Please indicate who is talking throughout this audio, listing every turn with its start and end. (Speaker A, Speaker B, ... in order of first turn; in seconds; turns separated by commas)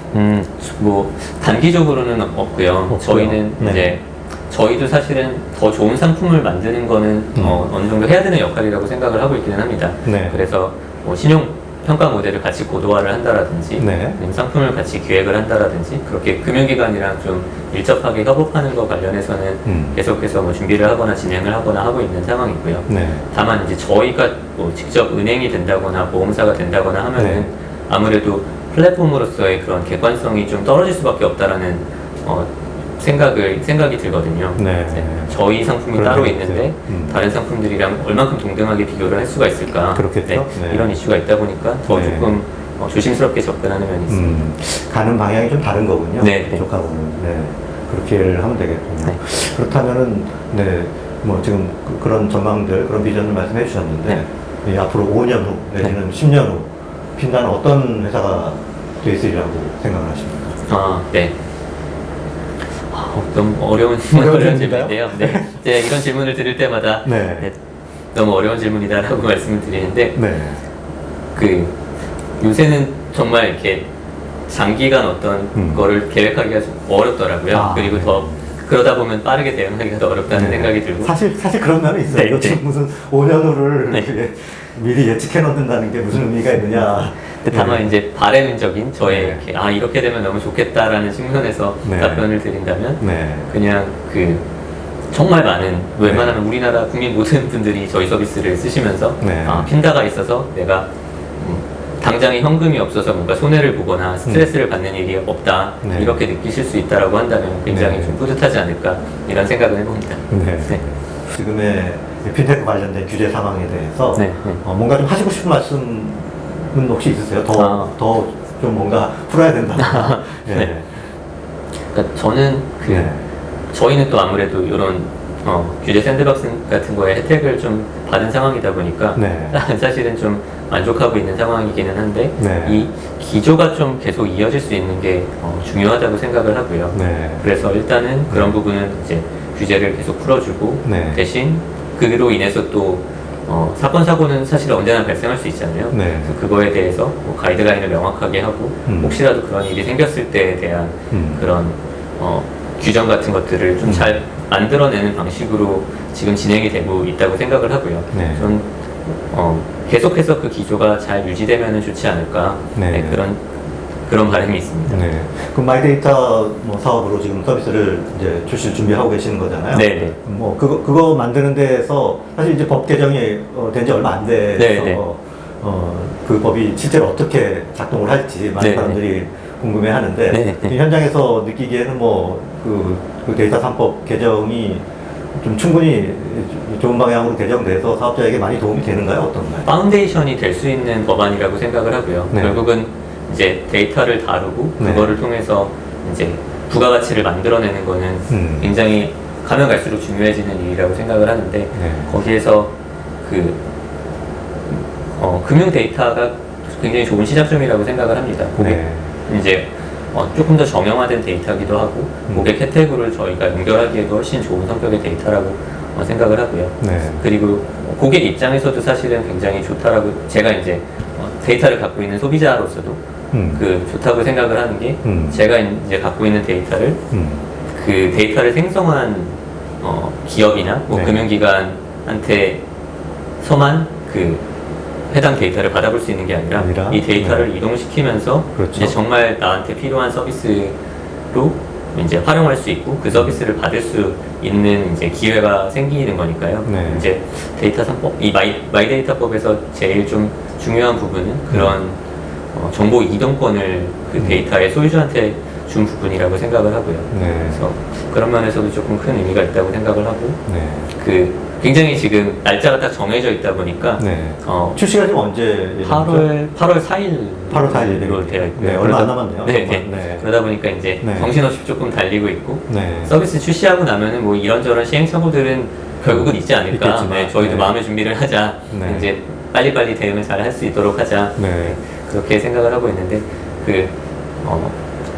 Speaker A: 0.1-44.4, Speaker B: 2.9-3.9, Speaker B: 7.4-7.6, Speaker B: 10.1-10.4, Speaker B: 13.8-14.2, Speaker B: 19.7-20.0, Speaker B: 22.9-23.2, Speaker B: 27.2-27.4, Speaker B: 34.6-35.3, Speaker B: 35.9-37.2, Speaker B: 39.9-40.9, Speaker B: 41.9-42.3, Speaker B: 44.1-60.6, Speaker A: 46.2-46.6, Speaker A: 60.7-61.3, Speaker A: 62.9-67.5, Speaker B: 64.1-65.5, Speaker B: 67.0-67.5, Speaker A: 68.1-70.2, Speaker B: 70.2-70.6, Speaker A: 71.4-71.8, Speaker A: 72.4-73.9, Speaker A: 74.5-81.1, Speaker B: 75.5-75.8, Speaker B: 77.5-78.4, Speaker B: 80.3-87.9, Speaker A: 82.1-82.6, Speaker A: 87.4-94.4, Speaker B: 89.0-89.4, Speaker B: 91.8-92.2, Speaker B: 93.0-93.5, Speaker A: 95.1-100.9, Speaker B: 96.0-96.3, Speaker B: 99.2-99.7, Speaker A: 101.4-110.8, Speaker B: 105.8-106.2, Speaker B: 107.7-108.2, Speaker B: 110.3-120.9, Speaker A: 114.2-114.6, Speaker A: 117.6-117.9, Speaker A: 119.8-120.7, Speaker A: 121.9-123.1, Speaker B: 122.9-123.2, Speaker A: 123.7-163.4, Speaker B: 129.2-129.6, Speaker B: 132.4-132.8, Speaker B: 136.9-137.4, Speaker B: 140.8-141.2, Speaker B: 145.9-146.3, Speaker B: 148.9-149.2, Speaker B: 151.1-151.4, Speaker B: 153.8-154.1, Speaker B: 158.1-158.5, Speaker B: 162.8-163.2, Speaker A: 164.1-165.1, Speaker B: 164.9-189.7, Speaker A: 169.7-170.2, Speaker A: 174.6-175.0, Speaker A: 178.6-179.0, Speaker A: 180.3-180.8, Speaker A: 189.7-203.6, Speaker B: 192.3-192.6, Speaker B: 194.8-195.1, Speaker B: 198.3-198.7, Speaker B: 201.8-202.1, Speaker A: 204.7-223.0, Speaker B: 208.6-209.1, Speaker B: 216.8-217.2, Speaker B: 223.3-223.6, Speaker A: 223.6-227.0, Speaker B: 225.0-225.4, Speaker B: 227.1-227.4, Speaker A: 227.7-232.6, Speaker B: 230.9-231.3, Speaker A: 233.4-234.4, Speaker A: 235.1-240.8, Speaker B: 236.6-237.5, Speaker B: 238.6-238.9, Speaker A: 241.3-252.0, Speaker B: 246.7-247.1, Speaker A: 252.5-260.4, Speaker B: 254.2-254.4, Speaker B: 257.1-257.6, Speaker B: 260.5-260.9, Speaker A: 260.9-264.8, Speaker B: 264.0-266.3, Speaker A: 265.8-284.8, Speaker B: 267.5-270.3, Speaker B: 271.0-271.3, Speaker B: 272.7-273.1, Speaker B: 276.1-277.7, Speaker B: 278.7-279.1, Speaker B: 281.4-281.8